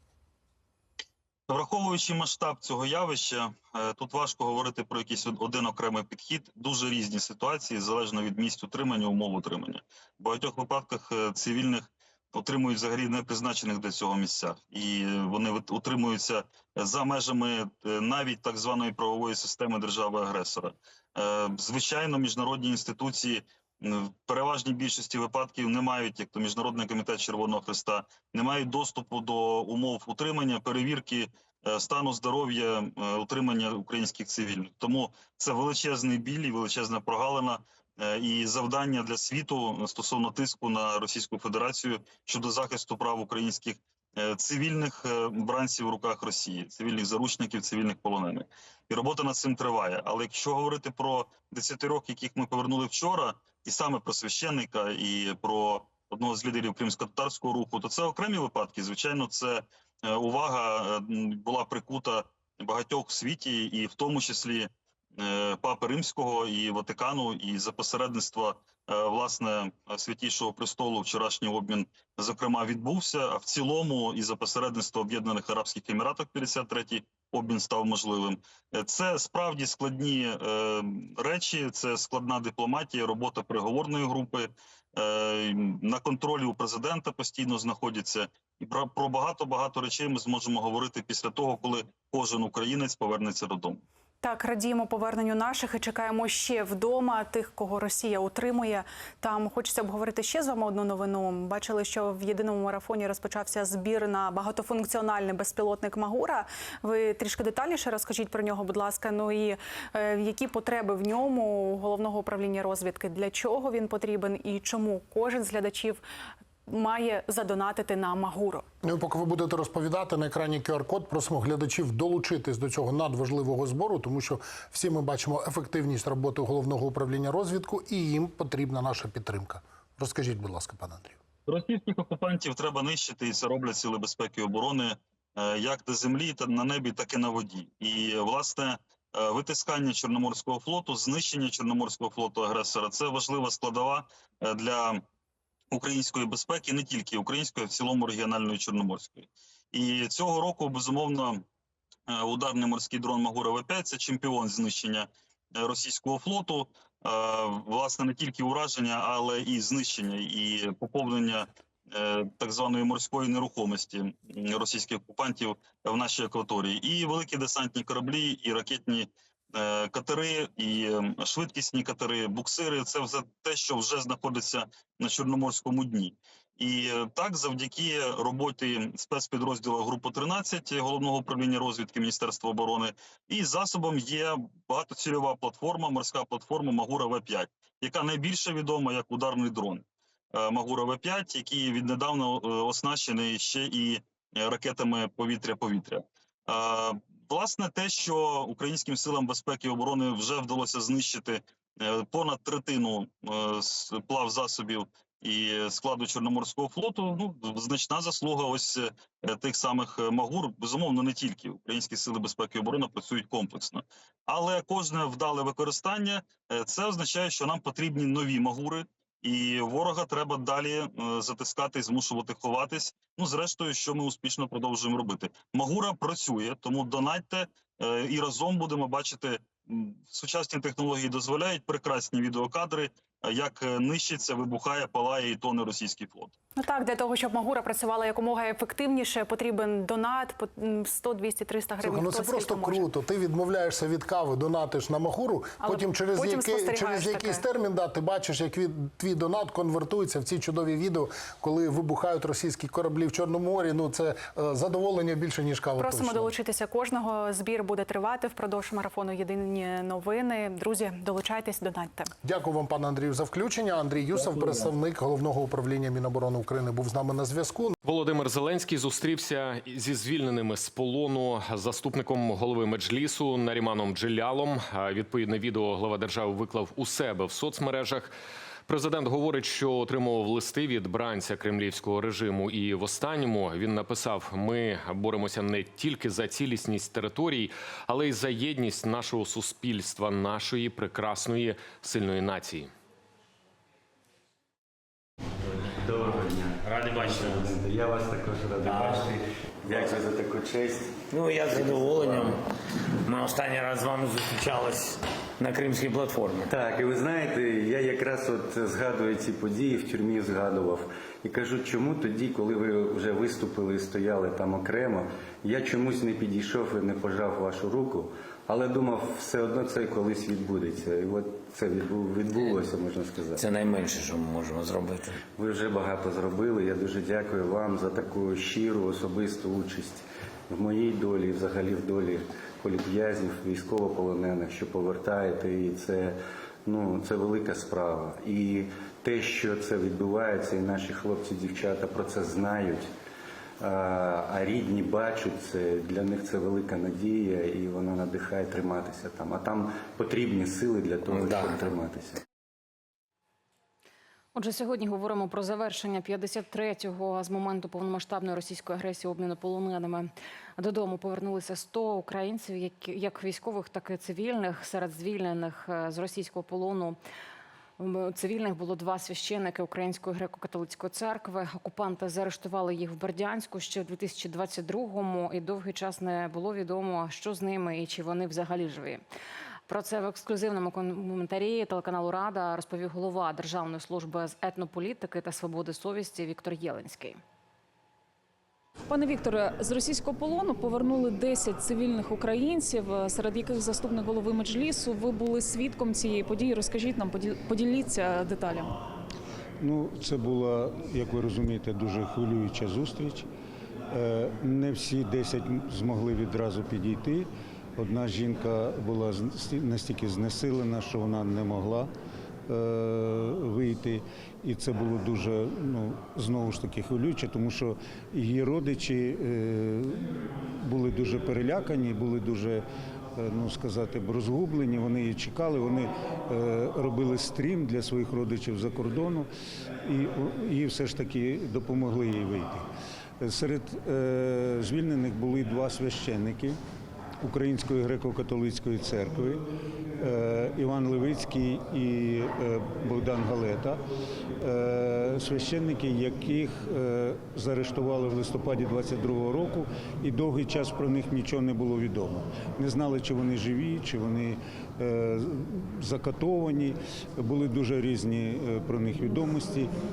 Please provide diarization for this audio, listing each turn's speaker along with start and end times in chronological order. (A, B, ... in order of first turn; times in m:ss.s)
0:01.5-1:33.8 A
1:34.2-1:56.0 B
1:56.7-1:58.7 B
1:58.8-2:11.2 C
2:11.5-2:25.0 A
2:25.7-2:31.4 A
2:32.1-3:56.3 A
3:56.6-4:02.9 B
4:01.8-4:16.3 C
4:05.6-4:07.4 B
4:15.8-4:22.1 B
4:22.2-4:27.8 C
4:27.8-4:38.1 D
4:38.7-4:52.7 D
4:55.6-5:02.4 E
4:56.6-4:57.5 F
4:58.6-4:59.1 F
5:01.1-5:02.4 F
5:03.1-5:06.6 F
5:06.5-5:23.4 E
5:23.4-5:25.2 F
5:25.4-5:42.9 E
5:43.6-5:52.2 E
5:51.3-5:51.6 F
5:54.4-6:07.0 G
6:07.8-6:19.0 G
6:19.7-6:27.2 G
6:28.9-6:38.8 H
6:39.6-6:43.3 I
6:43.9-6:51.9 I
6:52.5-7:02.6 I
7:03.2-7:09.3 I
7:09.8-7:12.7 I
7:13.2-7:16.6 I
7:17.2-7:19.4 I
7:20.0-7:23.8 I
7:24.4-7:39.7 I